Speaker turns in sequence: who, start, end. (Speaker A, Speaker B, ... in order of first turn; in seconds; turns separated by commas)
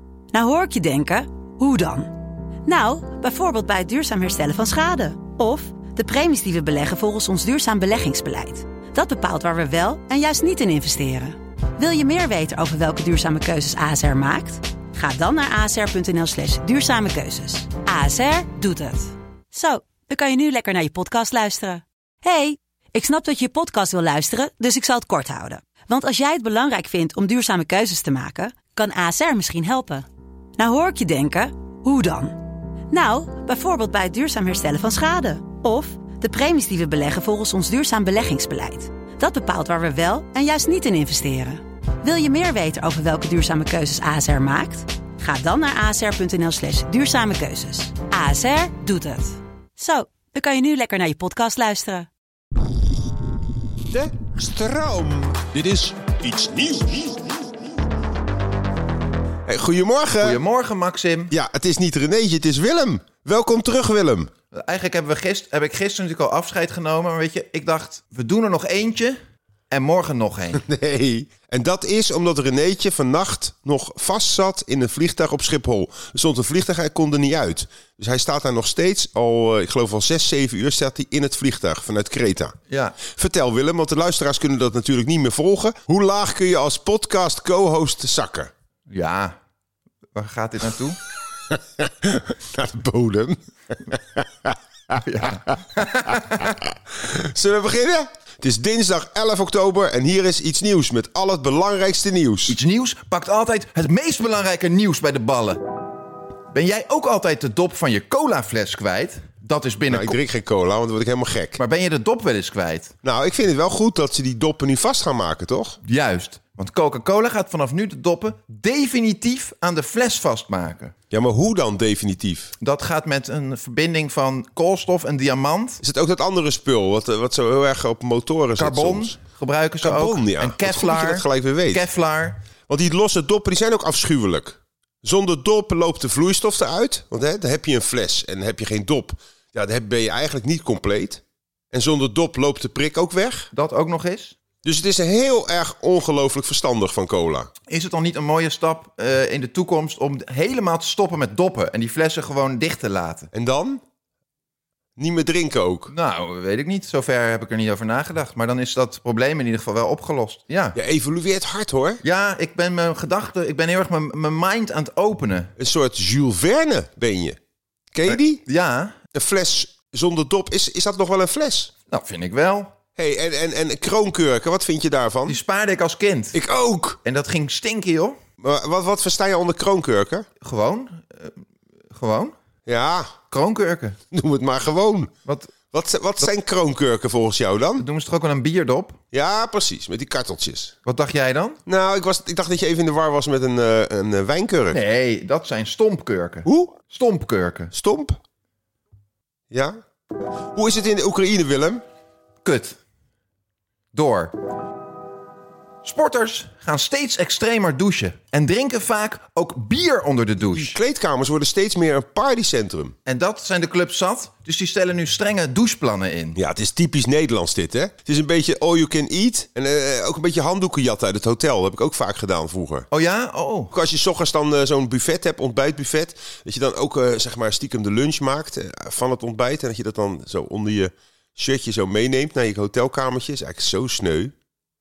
Speaker A: 0.3-30.1, Speaker A: 30.6-52.1, Speaker B: 53.9-57.1, Speaker B: 59.5-60.4, Speaker C: 60.2-61.3, Speaker B: 61.3-64.3, Speaker C: 64.5-69.2, Speaker C: 69.7-70.6, Speaker B: 70.5-82.5, Speaker C: 82.7-83.0, Speaker B: 83.1-88.5, Speaker C: 88.9-89.3, Speaker C: 90.2-91.0, Speaker B: 91.5-95.6, Speaker C: 95.0-96.5, Speaker B: 96.4-102.6, Speaker C: 102.5-105.6, Speaker C: 106.5-110.2, Speaker B: 109.9-111.6, Speaker C: 111.6-112.9, Speaker B: 113.0-115.8, Speaker C: 115.8-120.9, Speaker B: 121.1-122.5, Speaker C: 122.6-125.8, Speaker B: 125.8-129.2, Speaker C: 128.6-132.4, Speaker B: 129.8-131.9, Speaker B: 132.7-143.5, Speaker C: 143.5-144.4, Speaker B: 144.6-147.5, Speaker C: 147.7-153.3, Speaker B: 153.3-153.8, Speaker B: 155.0-155.9, Speaker C: 155.9-160.8, Speaker B: 160.7-162.0, Speaker C: 162.0-165.5, Speaker B: 165.6-167.4, Speaker B: 167.9-168.4, Speaker C: 168.1-169.0, Speaker B: 169.1-171.7, Speaker C: 171.9-172.7, Speaker B: 173.0-175.4, Speaker C: 175.3-176.4, Speaker B: 176.3-177.0, Speaker C: 177.0-178.2, Speaker B: 178.4-180.3, Speaker C: 180.4-181.4, Speaker C: 181.9-182.3, Speaker B: 182.7-183.1, Speaker C: 183.3-184.0, Speaker B: 184.1-185.1, Speaker C: 185.3-185.5, Speaker B: 185.7-187.8, Speaker C: 187.8-189.0, Speaker B: 189.1-190.7, Speaker C: 190.8-191.6, Speaker B: 191.7-194.8, Speaker C: 194.7-197.7, Speaker B: 196.4-196.8, Speaker B: 197.7-198.2, Speaker B: 199.5-199.8, Speaker B: 200.5-201.8, Speaker C: 202.4-202.8, Speaker C: 203.9-204.3, Speaker C: 205.8-210.8, Speaker B: 210.5-212.9, Speaker C: 213.1-216.4, Speaker B: 216.3-222.9, Speaker C: 222.9-223.7, Speaker B: 223.7-234.3